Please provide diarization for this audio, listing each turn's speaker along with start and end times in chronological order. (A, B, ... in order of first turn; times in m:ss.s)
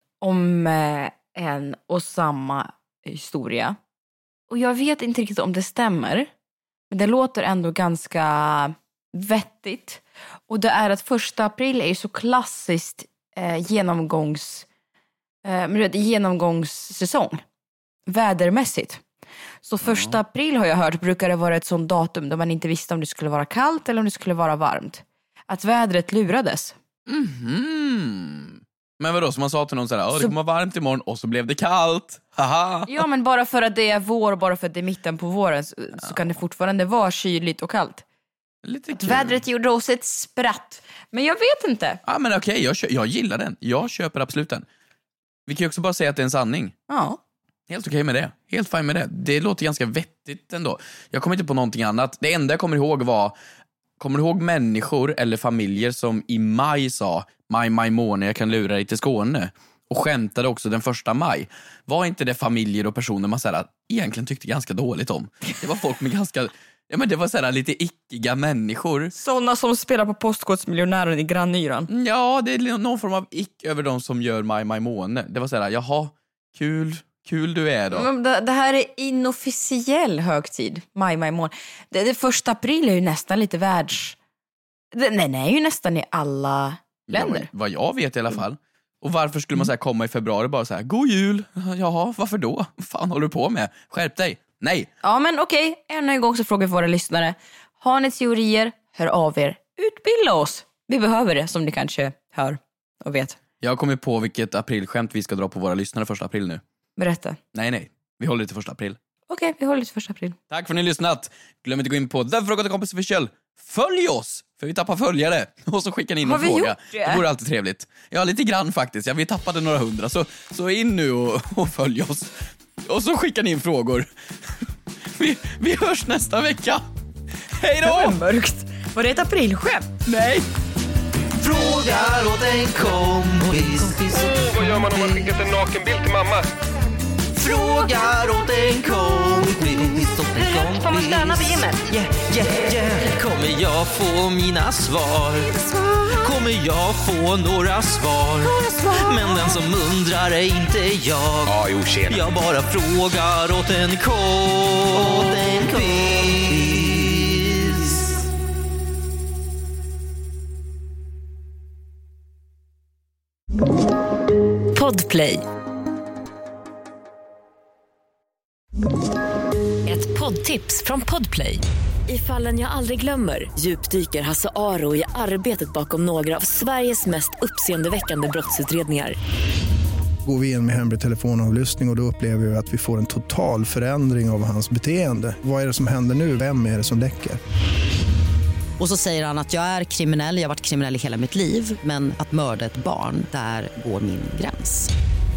0:00.2-0:03.8 A
0:04.5-0:06.3 A
0:06.9-0:14.7 A
0:15.4-0:17.4 A
0:18.1-0:19.0 A
0:19.6-0:26.8 A
0:19.8-0:20.2 B
0:27.1-0:33.0 B
0:32.9-0:38.0 A
0:38.6-0:39.4 B
0:39.0-0:42.0 A
0:42.1-0:44.6 B
0:45.5-0:46.8 B
0:46.9-0:47.2 A
0:47.7-0:53.3 B
0:54.0-1:09.1 B
1:09.1-1:11.9 A
1:11.9-1:18.1 B
1:17.9-1:24.2 A
1:24.9-1:27.5 A
1:27.1-1:34.9 B
1:35.0-1:43.4 A
1:43.6-1:46.6 B
1:47.0-1:47.4 A
1:47.5-1:49.0 B
1:49.3-1:50.4 A
1:50.5-2:02.3 B
1:56.2-1:57.2 A
2:02.8-2:04.1 B
2:05.2-2:06.9 B
2:07.6-2:08.2 B
2:07.8-2:09.9 A
2:10.1-2:10.4 B
2:11.4-2:15.4 C
2:14.2-2:16.5 D
2:17.3-2:38.2 C
2:20.8-2:21.8 E
2:28.6-2:28.9 A
2:44.7-2:45.4 F
2:49.9-2:59.2 F
3:00.2-3:07.4 G
3:08.8-3:14.9 E